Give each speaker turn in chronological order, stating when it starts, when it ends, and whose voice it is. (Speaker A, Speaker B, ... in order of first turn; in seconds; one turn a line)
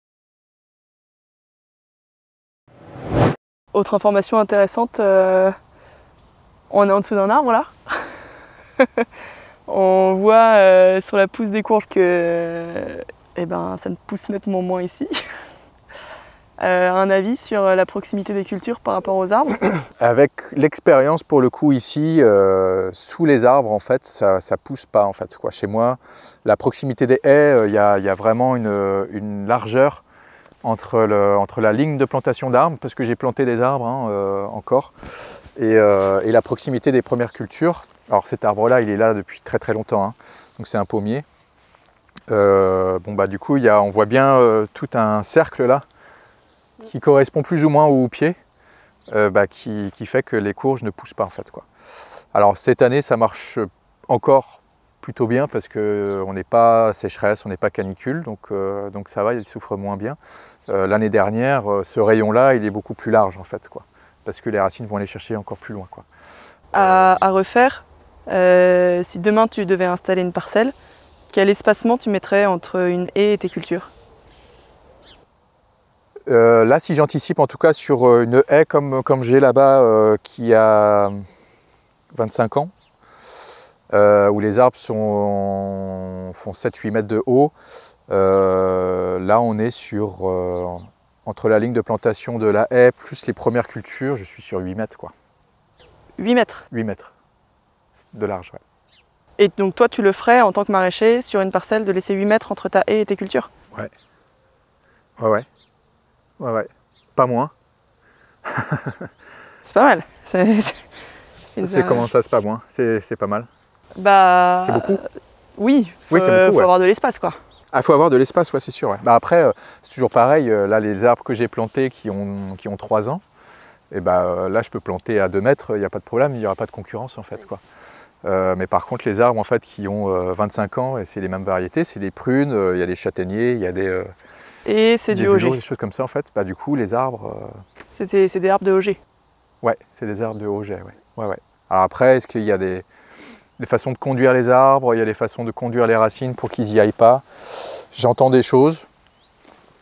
Speaker A: 3.7-5.6
Speaker A: 6.7-8.1
Speaker A: 8.8-9.1
Speaker A: 9.7-15.2
Speaker A: 16.6-19.6
Speaker B: 20.0-30.0
Speaker B: 30.6-34.9
Speaker B: 35.6-41.2
Speaker B: 42.3-45.8
Speaker B: 46.8-48.4
Speaker B: 49.1-51.7
Speaker B: 52.3-66.0
Speaker A: 66.7-70.7
Speaker B: 66.8-67.1
Speaker A: 71.3-73.9
Speaker B: 76.3-81.2
Speaker B: 82.1-82.7
Speaker B: 83.9-87.5
Speaker B: 88.1-95.1
Speaker A: 96.2-96.7
Speaker B: 96.7-97.1
Speaker B: 98.1-98.6
Speaker A: 99.4-103.5
Speaker B: 105.2-105.5
Speaker B: 106.4-107.5
Speaker B: 108.5-109.1
Speaker A: 109.7-110.9
Speaker A: 111.5-112.1
Speaker B: 111.6-113.5
Speaker A: 114.0-117.4
Speaker B: 114.6-115.0
Speaker B: 116.1-116.7
Speaker B: 117.7-123.2
Speaker B: 123.9-127.6
Speaker B: 128.2-134.1
Speaker A: 134.7-135.6
Speaker B: 135.1-137.6
Speaker A: 137.9-139.0
Speaker B: 139.6-142.8
Speaker B: 143.6-148.9